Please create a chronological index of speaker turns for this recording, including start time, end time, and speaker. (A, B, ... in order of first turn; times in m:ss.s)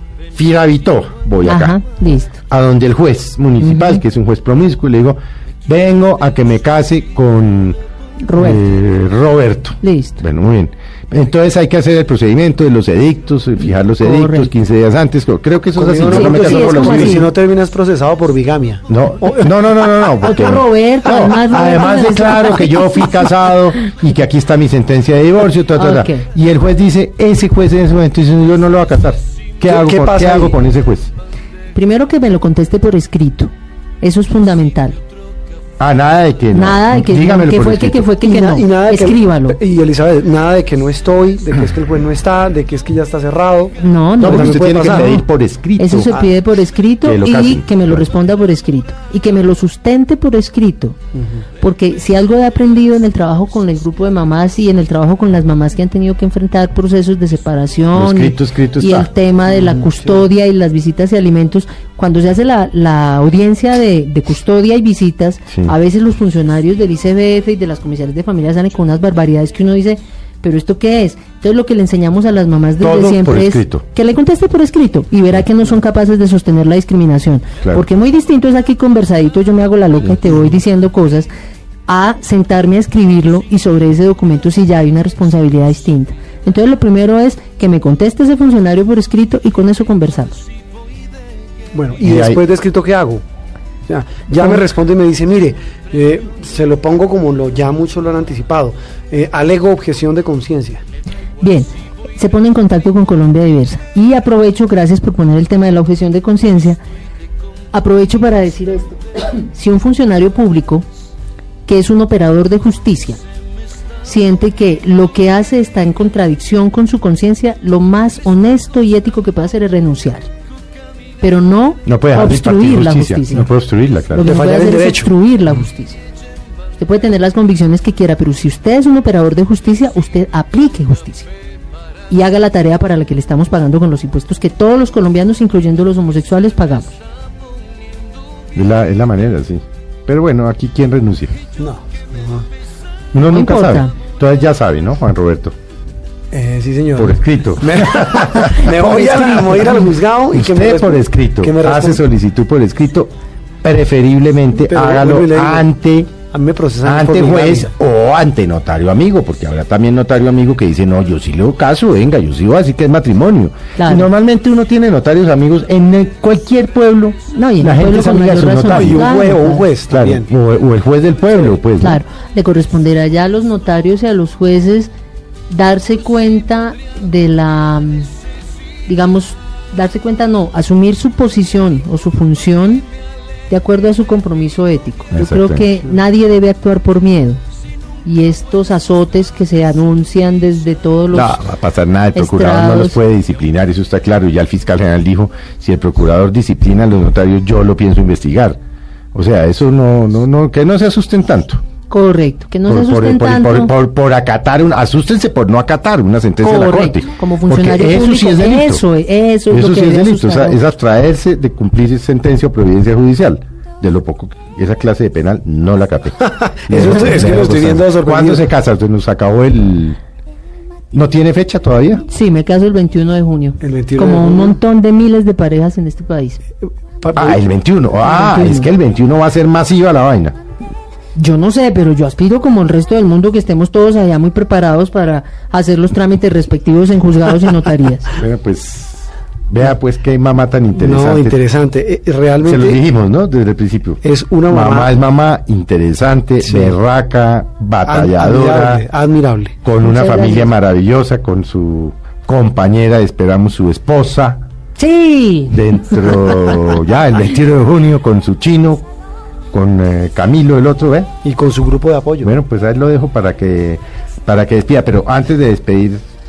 0:00.3-0:01.8 A
0:01.4-0:02.4 B
0:02.5-0:07.8 A
0:03.6-0:04.0 B
0:08.2-0:08.6 B
0:08.4-0:17.2 A
0:09.8-0:10.2 B
0:13.8-0:14.5 B
0:15.8-0:19.5 C
0:16.0-0:17.3 B
0:18.9-0:31.1 A
0:20.2-0:23.1 B
0:25.8-0:26.2 B
0:29.6-0:30.6 C
0:31.7-0:33.5 B
0:34.0-0:35.0 B
0:35.8-0:38.1 A
0:36.5-0:39.6 B
0:38.2-0:45.2 C
0:43.8-0:45.2 B
0:44.2-0:46.1 A
0:45.8-0:51.0 B
0:47.0-0:48.1 A
0:51.1-0:51.4 C
0:51.6-1:21.3 B
0:57.9-0:59.1 A
1:12.8-1:13.8 A
1:21.9-1:30.4 B
1:31.7-1:33.2 C
1:32.0-1:32.4 A
1:33.9-1:40.8 C
1:41.4-1:46.8 B
1:47.7-1:50.9 B
1:51.6-1:53.2 B
1:54.0-2:00.3 B
2:01.2-2:03.5 B
2:01.9-2:04.4 A
2:04.1-2:06.0 B
2:04.2-2:05.1 C
2:06.8-2:11.3 B
2:12.1-2:17.0 B
2:18.5-2:21.3 A
2:21.6-2:22.4 C
2:23.1-2:25.5 A
2:23.3-2:23.9 B
2:26.3-2:32.0 C
2:27.0-2:33.1 A
2:33.6-2:36.1 A
2:34.6-2:35.7 C
2:36.3-2:37.7 C
2:36.8-2:49.1 A
2:43.8-2:44.1 B
2:47.3-2:49.6 B
2:48.7-2:50.3 C
2:49.9-2:52.0 A
2:51.8-2:54.9 B
2:55.5-2:58.1 B
2:58.9-3:02.8 B
3:03.5-3:07.4 B
3:05.1-3:05.7 A
3:08.0-3:11.4 B
3:11.1-3:18.6 A
3:12.1-3:13.0 B
3:19.1-3:21.6 A
3:21.9-3:23.7 B
3:22.7-3:28.8 A
3:26.4-3:30.6 B
3:29.5-3:40.0 A
3:36.3-3:38.4 C
3:40.9-3:42.0 A
3:42.1-3:46.4 B
3:43.6-3:44.6 C
3:47.0-3:47.4 C
3:47.1-3:50.4 A
3:48.0-3:48.7 B
3:51.1-3:58.2 B
3:58.2-4:01.4 A
4:00.8-4:02.8 C
4:02.4-4:08.8 A
4:04.0-4:04.9 C
4:06.4-4:06.8 C
4:07.8-4:09.6 C
4:09.6-4:14.4 A
4:09.8-4:10.5 B
4:14.8-4:16.1 B
4:15.5-4:18.9 A
4:19.5-4:21.1 A
4:21.2-4:22.3 C
4:22.2-4:26.0 A